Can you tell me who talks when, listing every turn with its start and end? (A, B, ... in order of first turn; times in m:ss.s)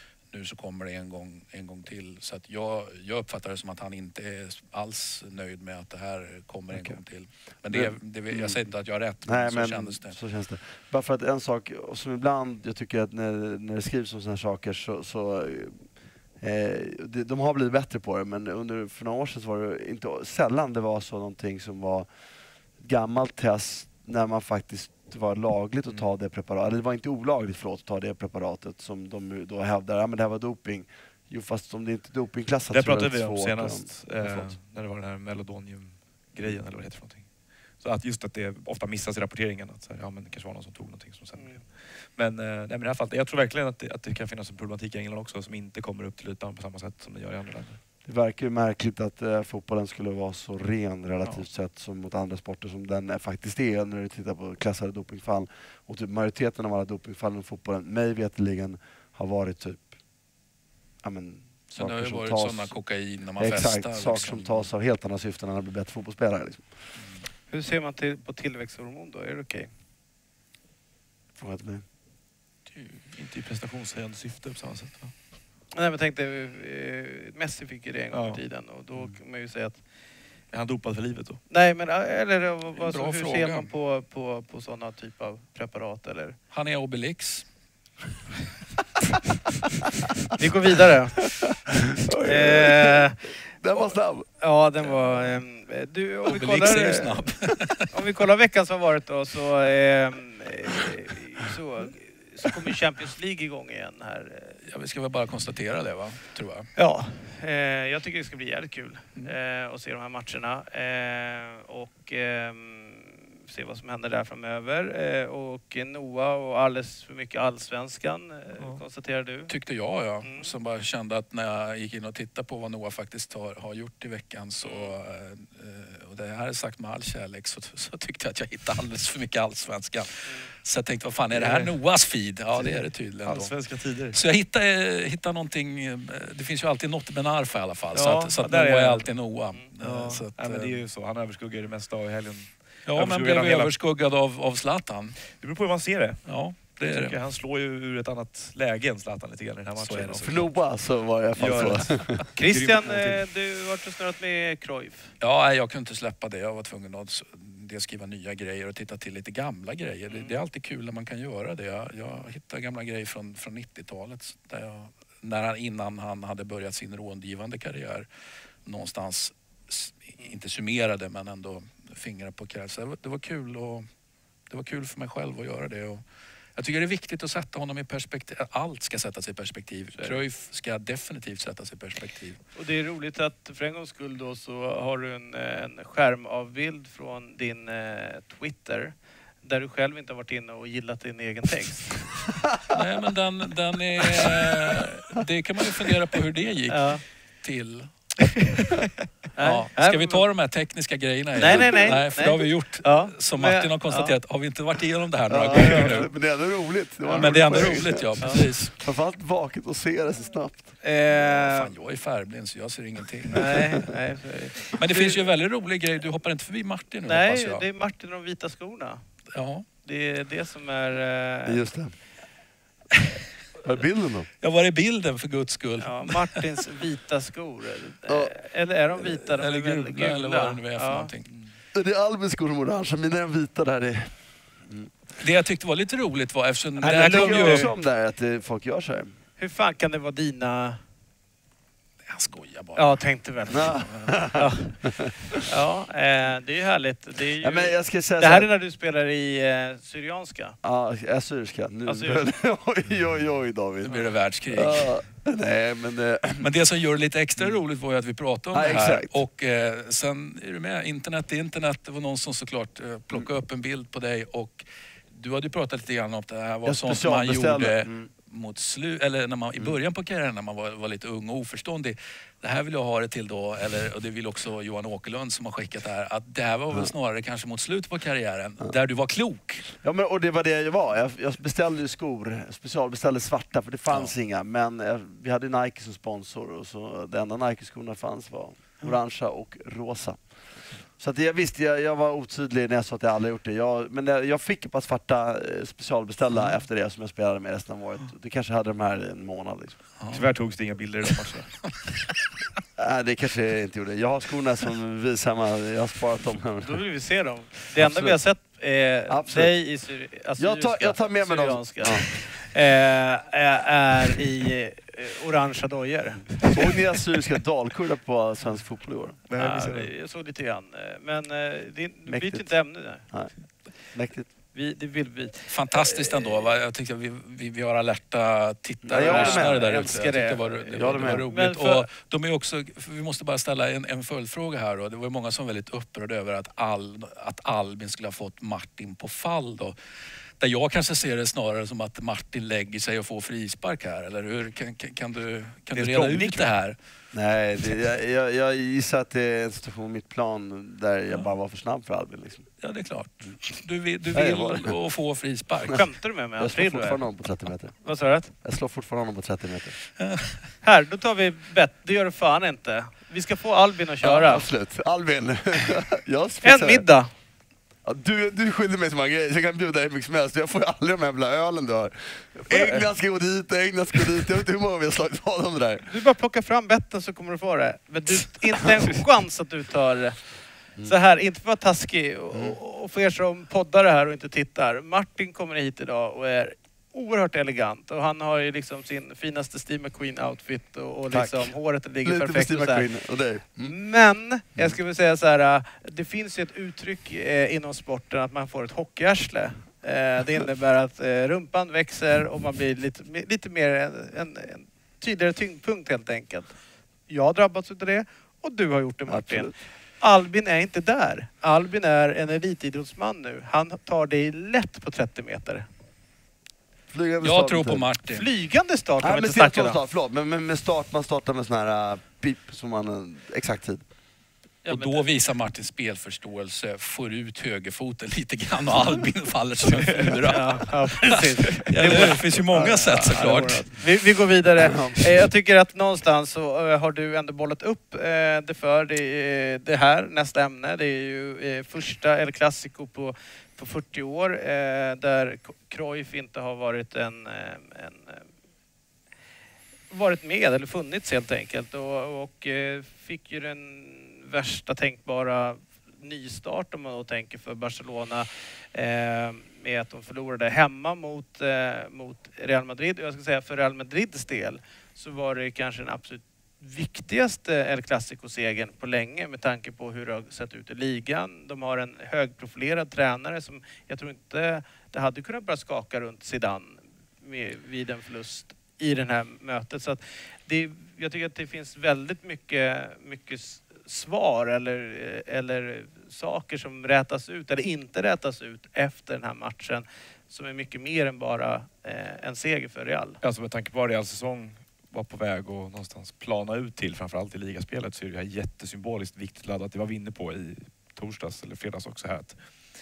0:00.3-0:10.2 A
0:06.7-0:07.0 B
0:07.7-0:08.6 C
0:09.2-0:15.8 C
0:16.4-0:22.1 C
0:22.8-0:34.6 C
0:32.7-0:47.8 B
0:41.4-0:41.6 D
0:48.0-0:59.9 C
1:01.0-1:02.7 C
1:01.8-1:04.7 A
1:03.4-1:06.7 C
1:07.5-1:09.7 D
1:11.4-1:11.8 C
1:13.1-1:15.1 B
1:15.7-1:19.8 D
1:18.1-1:18.4 B
1:20.5-1:21.4 B
1:21.5-1:26.4 D
1:22.8-1:23.7 A
1:26.5-1:27.5 A
1:30.4-1:31.3 D
1:31.4-1:34.3 C
1:32.2-1:37.3 D
1:36.3-1:37.9 A
1:37.9-1:44.6 D
1:44.7-1:46.7 A
1:46.8-1:59.5 D
1:59.5-2:13.5 A
2:00.2-2:00.5 D
2:04.6-2:04.9 D
2:11.3-2:11.8 B
2:12.5-2:14.2 B
2:14.1-2:20.8 A
2:17.9-2:19.2 B
2:19.8-2:23.7 B
2:22.9-2:25.2 A
2:25.3-2:30.6 B
2:26.2-2:27.2 A
2:29.8-2:30.5 A
2:30.2-2:32.2 C
2:31.4-2:33.3 B
2:32.3-2:35.1 D
2:35.2-2:48.1 A
2:40.1-2:40.4 D
2:48.6-2:53.9 A
2:54.5-2:56.0 A
2:56.6-3:02.4 A
3:00.0-3:00.2 B
3:02.6-3:12.1 D
3:12.5-3:12.8 C
3:12.7-3:26.1 A
3:14.1-3:14.4 C
3:16.7-3:17.0 D
3:19.4-3:20.3 D
3:21.4-3:22.0 C
3:21.4-3:24.2 D
3:25.3-3:30.7 C
3:27.1-3:28.4 D
3:27.1-3:28.8 A
3:30.8-3:31.7 D
3:31.2-3:33.9 A
3:33.3-3:35.2 D
3:34.7-3:37.6 A
3:37.0-3:39.0 D
3:39.3-3:39.7 A
3:39.8-3:41.6 D
3:41.4-3:41.9 C
3:43.6-3:44.3 C
3:44.4-3:46.4 A
3:45.8-3:51.1 D
3:48.1-3:48.3 C
3:49.0-3:51.3 A
3:51.3-3:51.5 B
3:51.7-3:54.1 C
3:54.6-3:54.9 C
3:55.2-3:57.7 A
3:56.8-3:57.7 D
3:56.8-3:59.2 C
3:59.4-4:00.8 D
4:02.1-4:03.0 A
4:02.8-4:04.9 D
4:03.5-4:05.2 C
4:03.6-4:04.2 A
4:05.5-4:10.6 D
4:07.4-4:08.5 C
4:10.6-4:16.5 C
4:11.9-4:12.2 D
4:13.9-4:14.9 A
4:16.4-4:39.7 A
4:18.5-4:19.2 C
4:26.6-4:28.1 C
4:39.8-4:50.3 C
4:51.0-4:59.8 C
5:00.0-5:00.3 A
5:00.1-5:01.6 B
5:02.8-5:06.8 C
5:06.6-5:16.8 D
5:09.1-5:09.6 C
5:10.4-5:12.2 C
5:16.4-5:19.2 C
5:19.3-5:19.9 B
5:19.4-5:23.0 D
5:22.1-5:22.5 C
5:23.0-5:24.3 C
5:24.5-5:26.5 D
5:25.5-5:39.8 A
5:28.8-5:30.0 C
5:29.0-5:31.9 D
5:30.7-5:31.3 C
5:40.4-5:46.8 A
5:45.7-5:46.5 B
5:47.1-5:52.5 C
5:52.6-5:55.9 A
5:54.1-5:54.8 C
5:55.7-5:57.0 D
5:56.4-5:59.8 C
5:57.8-5:58.3 D
6:00.0-6:00.5 A
6:00.6-6:04.5 D
6:04.0-6:04.3 A
6:04.3-6:06.9 C
6:06.4-6:07.1 D
6:07.8-6:15.9 C
6:12.5-6:12.8 D
6:15.9-6:32.9 D
6:31.1-6:31.5 C
6:32.0-6:33.8 C
6:33.6-6:46.6 D
6:47.1-6:55.7 D
6:49.1-6:49.5 C
6:56.9-6:57.9 C
6:57.2-6:58.3 A
6:58.1-6:59.8 D
6:59.0-7:03.8 C
7:04.6-7:13.8 A
7:04.7-7:05.0 D
7:09.8-7:10.2 B
7:10.2-7:28.3 D
7:11.5-7:12.2 B
7:14.6-7:15.1 C
7:29.9-8:13.2 D
8:13.2-8:22.4 B